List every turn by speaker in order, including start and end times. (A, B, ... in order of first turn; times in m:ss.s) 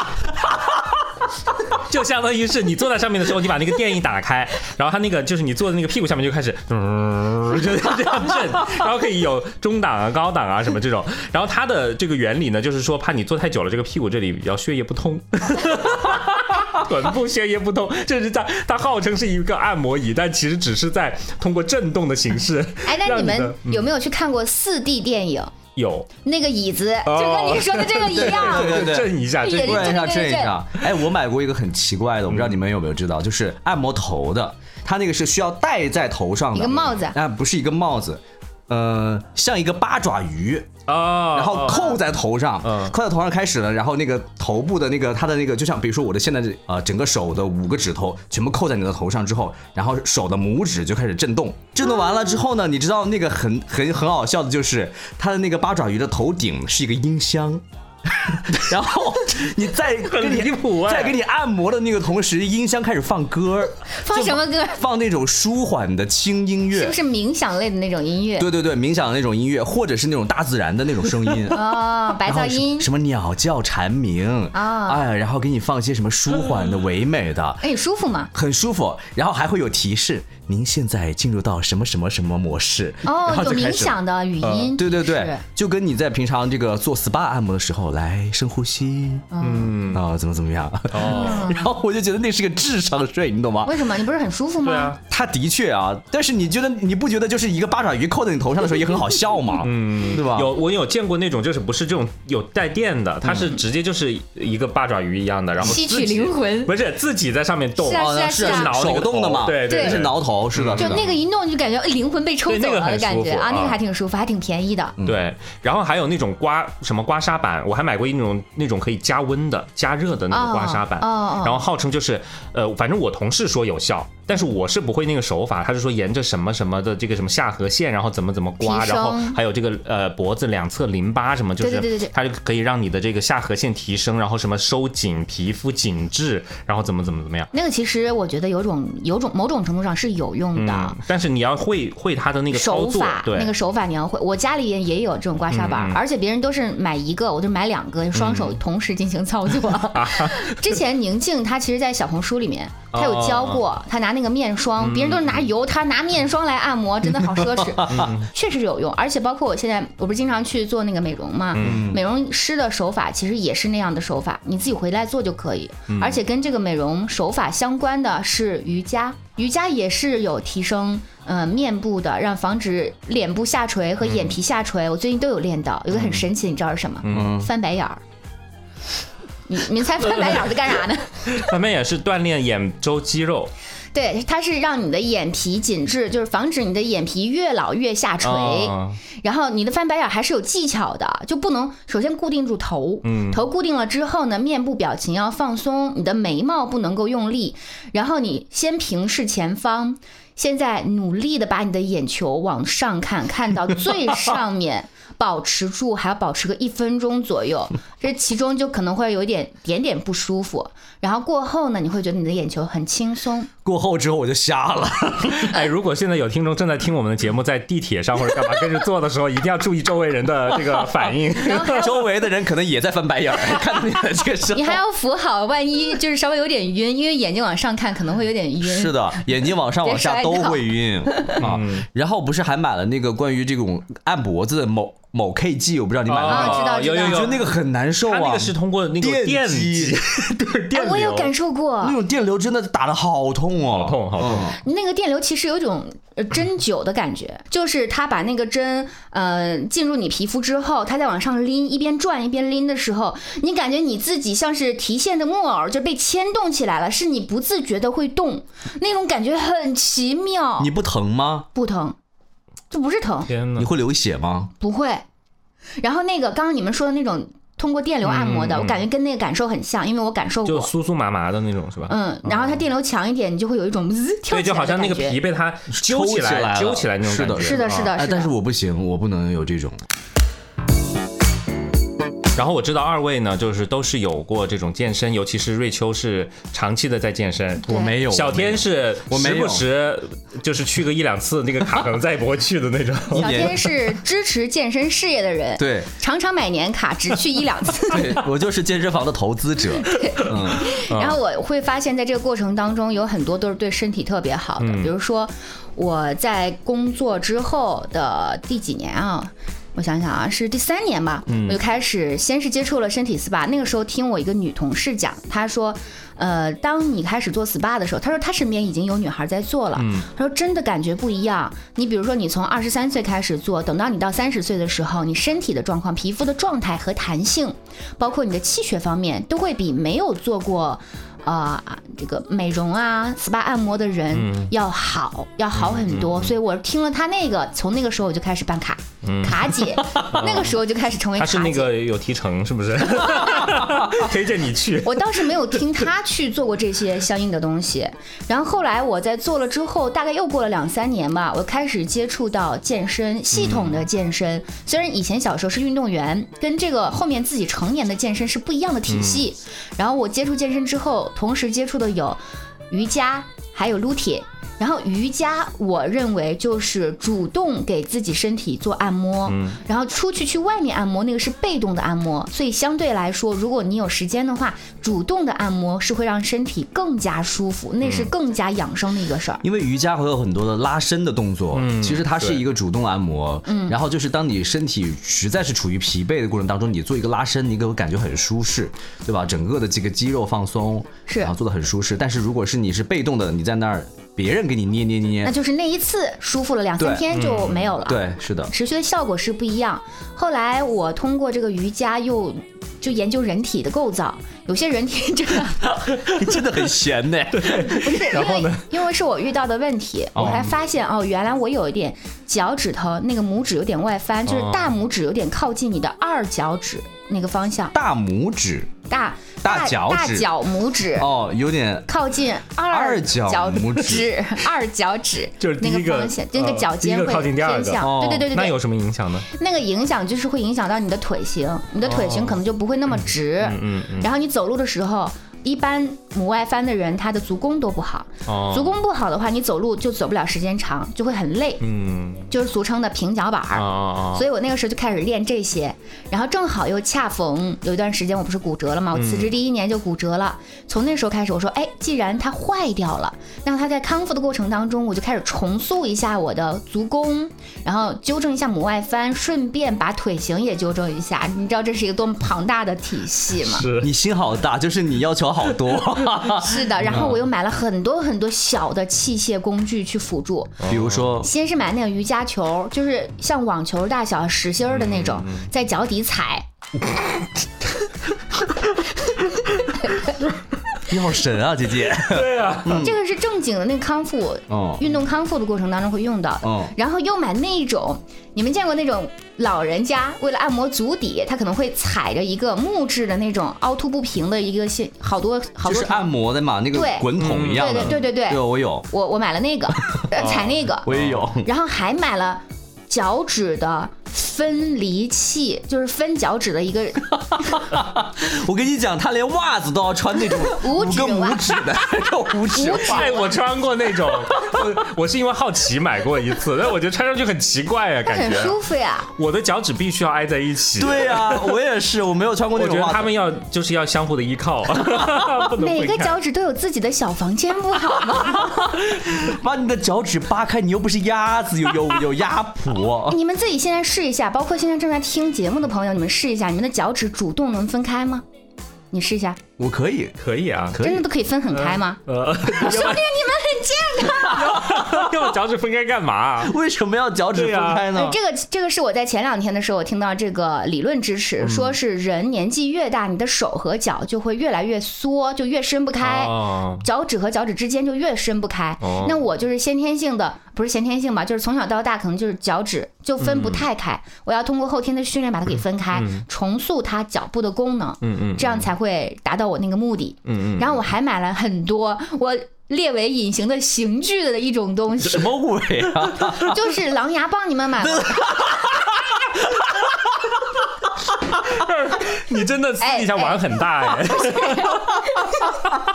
0:01.7-0:23.9 A
0:22.8-0:25.5 B
0:25.8-0:26.1 A
0:26.2-0:30.6 B
0:27.0-0:30.2 A
0:28.1-0:40.8 C
0:32.3-0:32.5 A
0:36.5-0:37.2 B
0:40.9-0:42.0 A
0:41.3-1:07.0 C
0:41.7-0:42.0 B
0:42.6-0:42.9 A
1:00.1-1:01.2 A
1:03.9-1:04.8 B
1:06.7-1:08.5 B
1:08.4-1:17.6 C
1:11.5-1:12.9 B
1:14.5-1:15.0 B
1:17.6-1:18.3 B
1:18.3-1:29.3 C
1:23.0-1:25.4 B
1:29.3-1:29.7 B
1:29.4-1:30.0 A
1:29.9-1:33.8 C
1:30.9-1:31.5 A
1:31.0-1:31.7 B
1:33.6-1:34.9 B
1:34.6-1:35.0 A
1:35.0-1:40.5 C
1:39.6-1:51.1 A
1:45.6-1:46.7 B
1:47.8-1:48.8 B
1:47.9-1:51.0 C
1:49.6-1:50.0 B
1:50.8-1:55.0 B
1:52.5-1:53.8 A
1:55.0-1:55.3 C
1:55.0-2:17.5 A
2:00.3-2:01.6 B
2:08.6-2:09.4 B
2:11.6-2:12.1 B
2:17.5-2:21.0 B
2:20.5-2:23.5 A
2:22.5-2:58.0 B
2:25.5-2:26.0 A
2:28.2-2:28.5 A
2:29.9-2:30.6 A
2:32.9-2:33.6 A
2:34.8-2:35.4 A
2:37.8-2:38.1 C
2:37.9-2:38.3 A
2:41.5-2:41.8 A
2:41.6-2:42.0 C
2:45.9-2:46.2 A
2:54.0-2:54.4 A
2:55.9-2:56.3 A
2:57.0-2:57.3 A
2:57.1-2:57.5 C
2:59.5-3:01.5 B
3:01.3-3:03.5 A
3:03.9-3:33.5 B
3:08.2-3:09.0 A
3:13.0-3:13.4 A
3:33.6-3:35.6 C
3:35.4-3:41.9 A
3:40.6-3:40.9 C
3:41.4-3:42.0 B
3:41.6-3:44.8 C
3:44.5-3:49.3 B
3:48.6-4:00.5 C
3:49.8-3:51.4 B
3:51.4-3:51.8 A
3:56.1-3:57.4 A
3:56.3-3:57.4 B
3:58.0-4:01.3 A
4:00.7-4:02.0 B
4:01.8-4:04.6 C
4:03.7-4:04.5 A
4:04.4-4:20.7 B
4:20.6-4:21.5 C
4:21.5-4:22.0 B
4:22.7-4:23.3 B
4:23.3-4:23.7 A
4:23.6-4:24.5 C
4:24.6-4:25.0 B
4:25.8-4:30.7 B
4:28.0-4:28.8 A
4:30.4-4:31.9 A
4:31.9-4:35.2 B
4:34.3-4:37.9 A
4:35.7-4:39.8 C
4:37.4-4:38.3 B
4:42.3-4:53.6 A
4:47.6-4:47.9 B
4:47.7-4:49.6 C
4:53.1-4:53.7 C
4:53.2-4:58.2 B
4:55.6-4:55.9 C
4:57.9-5:00.7 C
4:59.8-5:41.7 B
5:00.9-5:01.2 A
5:04.6-5:04.9 A
5:11.3-5:11.6 A
5:19.7-5:20.1 A
5:34.1-5:34.5 A
5:35.5-5:36.3 A
5:39.0-5:40.6 A
5:41.2-5:45.3 A
5:43.1-5:43.5 B
5:44.8-6:19.4 B
5:53.3-5:53.8 A
5:58.9-5:59.2 A
6:09.3-6:09.6 A
6:17.8-6:18.1 A
6:19.4-6:35.3 C
6:21.5-6:22.4 A
6:23.4-6:23.8 B
6:31.1-6:31.3 B
6:35.2-6:45.6 B
6:36.8-6:37.1 C
6:37.1-6:37.7 A
6:37.8-6:38.5 C
6:45.8-6:48.1 C
6:47.3-6:48.6 A
6:47.7-6:57.7 B
6:50.1-6:50.5 C
6:54.3-6:54.7 A
6:57.7-6:58.8 C
6:58.9-7:01.1 B
6:59.4-7:00.3 C
7:01.0-7:01.9 C
7:01.9-7:08.6 B
7:02.7-7:04.1 C
7:05.4-7:09.3 A
7:07.8-7:08.3 C
7:09.3-7:21.6 B
7:11.8-7:12.4 A
7:12.9-7:14.1 A
7:18.3-7:18.8 A
7:21.6-7:22.3 A
7:22.3-7:43.7 B
7:23.5-7:24.2 A
7:28.9-7:29.3 A
7:43.4-7:43.9 A
7:43.8-7:47.1 C
7:46.3-7:50.6 B
7:46.8-7:47.2 A
7:50.6-7:51.1 A
7:50.6-7:51.3 C
7:51.2-7:56.4 B
7:54.7-7:55.5 A
8:00.9-8:03.0 C
8:02.1-8:02.9 A
8:02.8-8:16.1 B
8:04.5-8:04.8 C
8:06.4-8:06.7 C
8:15.6-8:18.8 C
8:16.7-8:20.9 B
8:17.2-8:18.0 A
8:20.1-8:21.3 A
8:20.8-8:21.5 C
8:21.4-8:27.6 B
8:27.4-8:33.2 C
8:30.3-8:31.6 B
8:32.5-8:33.4 B
8:32.8-8:38.6 A
8:38.0-8:39.1 B
8:39.2-8:41.6 A
8:40.8-8:43.1 C
8:42.5-8:46.2 A
8:45.6-8:48.5 B
8:48.2-8:53.2 C
8:53.1-8:58.2 B
8:58.9-8:59.4 B
8:59.6-9:00.2 C
9:00.2-9:00.8 A
9:00.7-9:01.0 C
9:00.8-9:04.6 B
9:01.5-9:03.1 A
9:04.1-9:06.5 A
9:04.4-9:05.1 C
9:06.4-9:08.2 C
9:07.3-9:07.9 A
9:07.9-9:35.3 B
9:11.4-9:11.8 A
9:16.0-9:16.8 A
9:18.8-9:19.2 A
9:23.2-9:23.6 A
9:25.9-9:26.2 A
9:28.0-9:28.7 A
9:30.2-9:30.8 A
9:35.0-9:36.6 C
9:36.3-9:38.6 B
9:37.8-9:40.3 C
9:41.4-9:45.0 A
9:42.8-9:45.6 B